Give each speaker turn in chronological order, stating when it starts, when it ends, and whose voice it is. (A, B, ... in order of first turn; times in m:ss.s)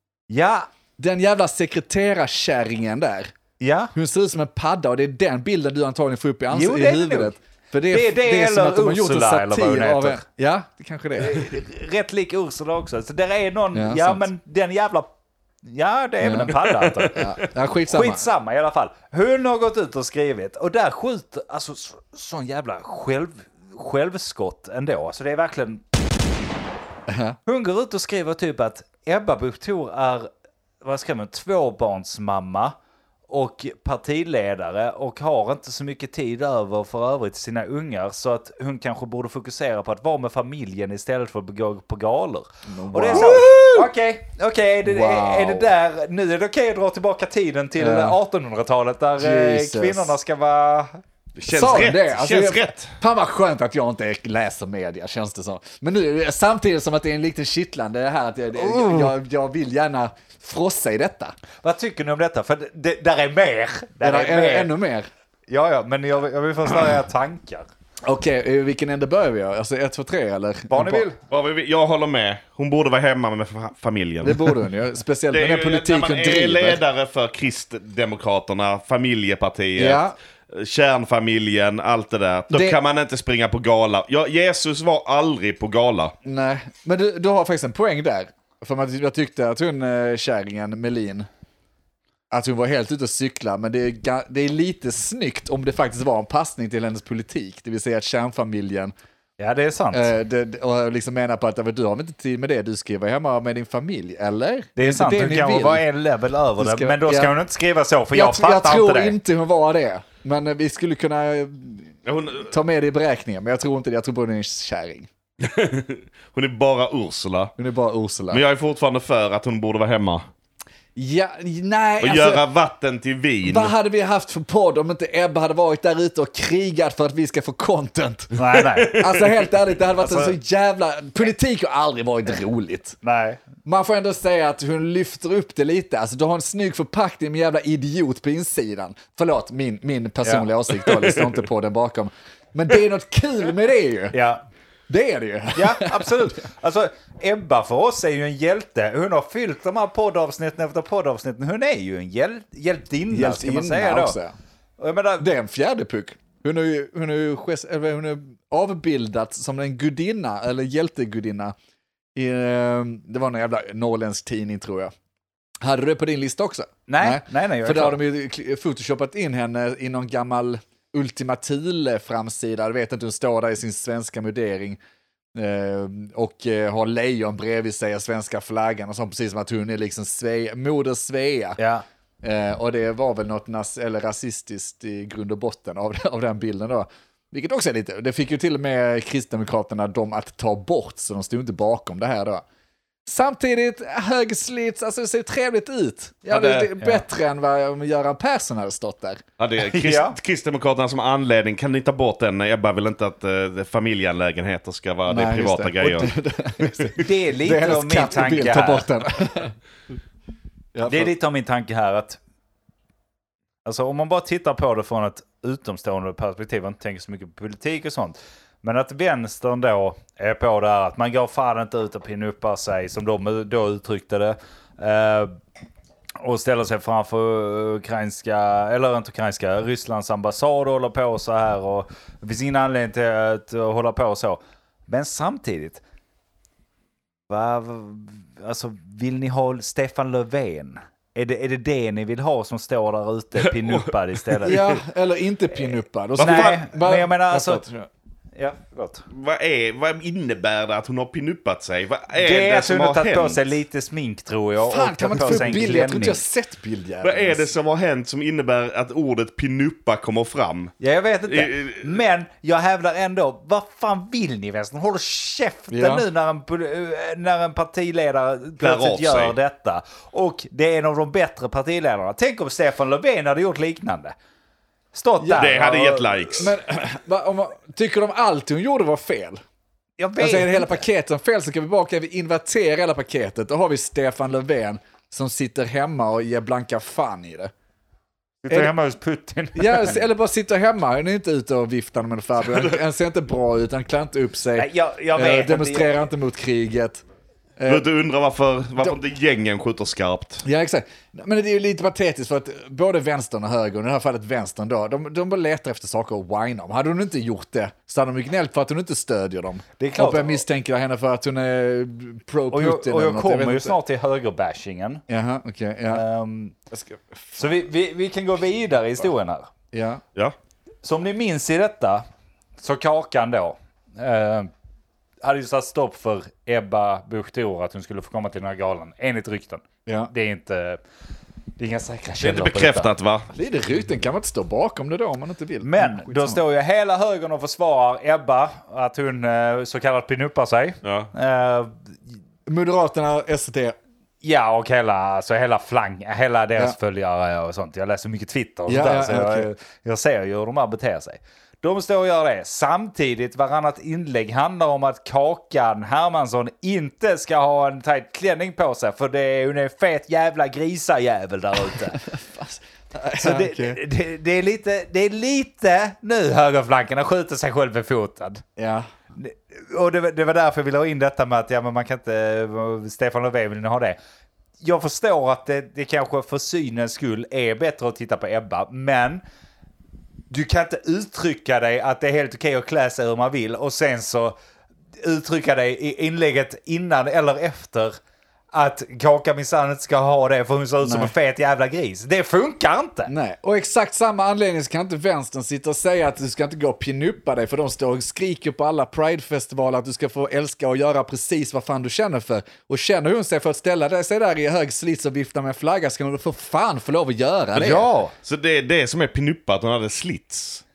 0:00.3-0:00.7 A
0:01.0-0:03.3 B
0:03.6-0:03.9 A
0:03.9-0:11.5 B
0:06.5-0:07.3 A
0:07.9-0:10.2 A
0:11.2-0:15.1 A
0:13.7-0:14.2 B
0:15.6-0:17.3 A
0:16.2-0:16.5 B
0:16.5-0:17.3 C
0:17.1-0:18.2 B
0:17.9-0:25.8 A
0:27.1-0:27.4 B
0:27.4-0:30.3 A
0:30.8-0:32.7 A
0:33.3-0:51.0 A
0:42.7-0:43.9 B
0:44.8-0:45.7 B
0:47.8-0:48.2 B
0:49.2-0:50.1 B
0:51.4-0:52.9 C
0:51.5-1:01.3 B
0:58.6-0:59.1 A
1:01.6-1:04.7 A
1:04.0-1:05.1 B
1:05.5-1:07.7 A
1:08.0-1:11.1 B
1:10.7-1:11.2 A
1:11.3-1:14.6 C
1:14.2-1:16.8 B
1:15.3-1:26.1 C
1:19.8-1:20.2 B
1:22.5-1:22.8 B
1:26.2-1:31.3 B
1:32.3-1:38.9 B
1:39.4-1:40.1 A
1:39.9-1:45.8 B
1:44.8-1:49.2 A
1:46.6-1:47.3 B
1:48.1-1:55.1 B
1:52.0-1:52.5 C
1:55.4-1:57.5 C
1:57.6-1:58.4 B
1:58.3-2:00.2 C
2:00.9-2:02.4 B
2:02.0-2:03.7 C
2:03.4-2:08.3 B
2:08.4-2:09.0 A
2:08.5-2:09.2 C
2:08.8-2:13.0 B
2:10.0-2:10.3 A
2:13.0-2:13.4 A
2:13.6-2:24.2 B
2:24.1-2:24.4 A
2:24.9-2:26.3 B
2:25.6-2:34.2 A
2:33.1-2:34.3 B
2:34.8-2:35.3 A
2:35.2-2:41.5 B
2:42.1-2:44.9 B
2:45.6-2:54.8 B
2:46.9-2:48.0 A
2:55.3-3:01.6 B
3:01.6-3:01.8 A
3:02.2-3:12.4 B
3:13.0-3:19.2 B
3:16.3-3:16.7 C
3:19.4-3:27.0 C
3:19.6-3:20.2 A
3:25.1-3:29.5 B
3:27.0-3:28.9 A
3:30.7-3:31.1 B
3:30.9-3:32.2 A
3:33.6-3:45.3 A
3:46.2-3:55.8 A
3:57.3-4:04.6 A
4:03.4-4:04.7 C
4:04.4-4:07.9 B
4:06.2-4:06.6 C
4:06.2-4:07.6 A
4:08.3-4:09.0 A
4:09.1-4:13.4 C
4:12.1-4:16.2 A
4:14.6-4:17.4 B
4:17.0-4:20.7 C
4:20.8-4:34.1 A
4:21.2-4:22.0 C
4:25.7-4:26.0 B
4:28.6-4:29.4 C
4:34.9-4:36.4 A
4:35.2-4:35.6 B
4:35.4-4:36.5 C
4:36.4-4:39.4 B
4:40.0-4:40.8 A
4:40.2-4:47.5 B
4:48.4-4:50.0 A
4:49.5-4:57.0 B
4:54.6-4:56.0 A
4:57.6-4:57.8 B
4:57.7-5:00.4 C
5:00.4-5:13.7 B
5:09.8-5:10.4 A
5:12.5-5:15.0 A
5:15.1-5:16.0 B
5:15.9-5:16.6 A
5:16.7-5:17.4 B
5:17.4-5:19.5 A
5:19.7-5:20.0 B
5:20.8-5:22.0 A
5:22.6-5:24.5 A
5:25.2-5:30.8 A
5:31.6-5:32.9 A
5:32.2-5:33.3 C
5:33.3-5:36.4 B
5:35.6-5:41.8 A
5:40.8-5:41.1 C
5:42.5-5:43.8 B
5:44.2-6:02.0 A
5:48.7-5:49.5 B
6:02.0-6:03.8 B
6:03.2-6:08.4 A
6:08.6-6:08.9 B
6:09.2-6:14.0 A
6:14.6-6:19.2 A
6:20.3-6:24.4 A
6:25.0-6:28.0 A
6:28.5-6:33.1 A
6:30.8-6:31.1 B
6:33.1-6:47.9 B
6:47.5-6:48.1 A
6:48.2-6:50.6 C